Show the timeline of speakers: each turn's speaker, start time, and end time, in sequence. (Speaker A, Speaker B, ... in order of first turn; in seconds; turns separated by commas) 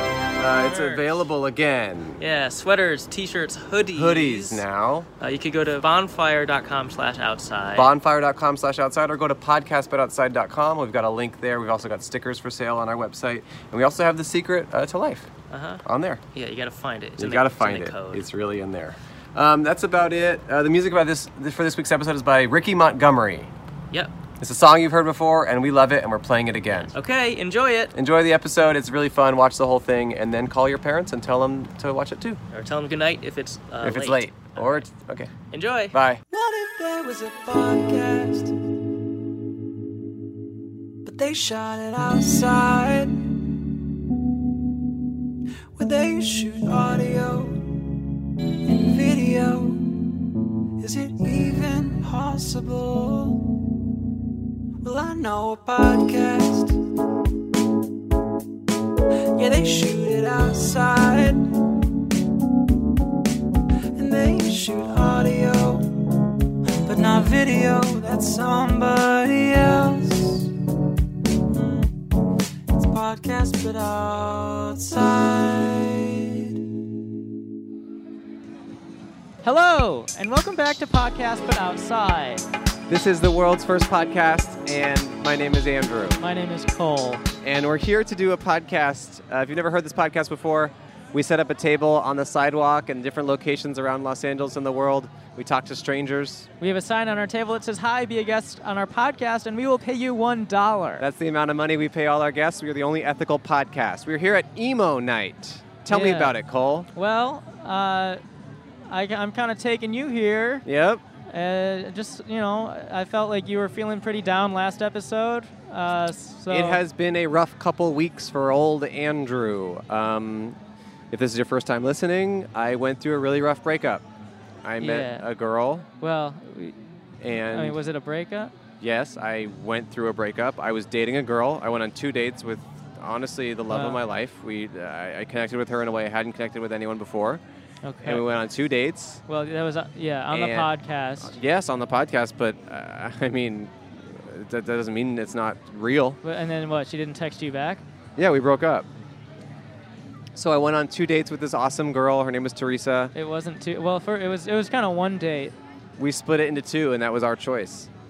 Speaker A: 0.3-2.2, Speaker B: 0.6-1.2, Speaker B: 2.2-4.6, Speaker A: 3.9-5.1, Speaker B: 5.2-7.9, Speaker A: 7.7-15.3, Speaker B: 15.5-18.3, Speaker A: 15.8-16.2, Speaker A: 17.2-23.5, Speaker A: 24.4-26.9, Speaker B: 26.8-27.9, Speaker A: 27.9-32.4, Speaker B: 32.5-34.8, Speaker A: 33.8-35.3, Speaker B: 35.5-35.9, Speaker A: 35.9-36.2, Speaker C: 36.3-38.5, Speaker C: 41.0-43.3, Speaker C: 45.8-47.6, Speaker C: 48.6-50.0, Speaker C: 50.8-53.4, Speaker C: 54.8-56.8, Speaker C: 59.4-61.5, Speaker C: 63.9-65.9, Speaker C: 66.8-70.5, Speaker C: 71.5-71.8, Speaker C: 72.7-76.1, Speaker D: 79.4-82.4, Speaker A: 82.9-86.2, Speaker D: 86.2-87.2, Speaker A: 87.4-96.5, Speaker D: 96.6-101.0, Speaker A: 101.0-106.9, Speaker D: 105.9-106.3, Speaker D: 106.9-108.2, Speaker D: 108.9-110.6, Speaker A: 110.6-111.0, Speaker D: 111.3-116.8, Speaker A: 116.5-120.6, Speaker A: 121.1-124.0, Speaker A: 124.6-125.9, Speaker D: 124.8-125.2, Speaker D: 126.0-126.8, Speaker A: 127.2-127.8, Speaker D: 127.4-128.5, Speaker A: 128.8-137.4, Speaker D: 133.7-134.0, Speaker D: 137.8-138.2, Speaker A: 138.0-139.2, Speaker D: 139.3-141.3, Speaker A: 140.3-140.7, Speaker A: 141.2-146.2, Speaker D: 146.2-147.8, Speaker A: 148.2-148.9, Speaker A: 150.3-153.1, Speaker D: 153.1-155.5, Speaker A: 156.0-157.9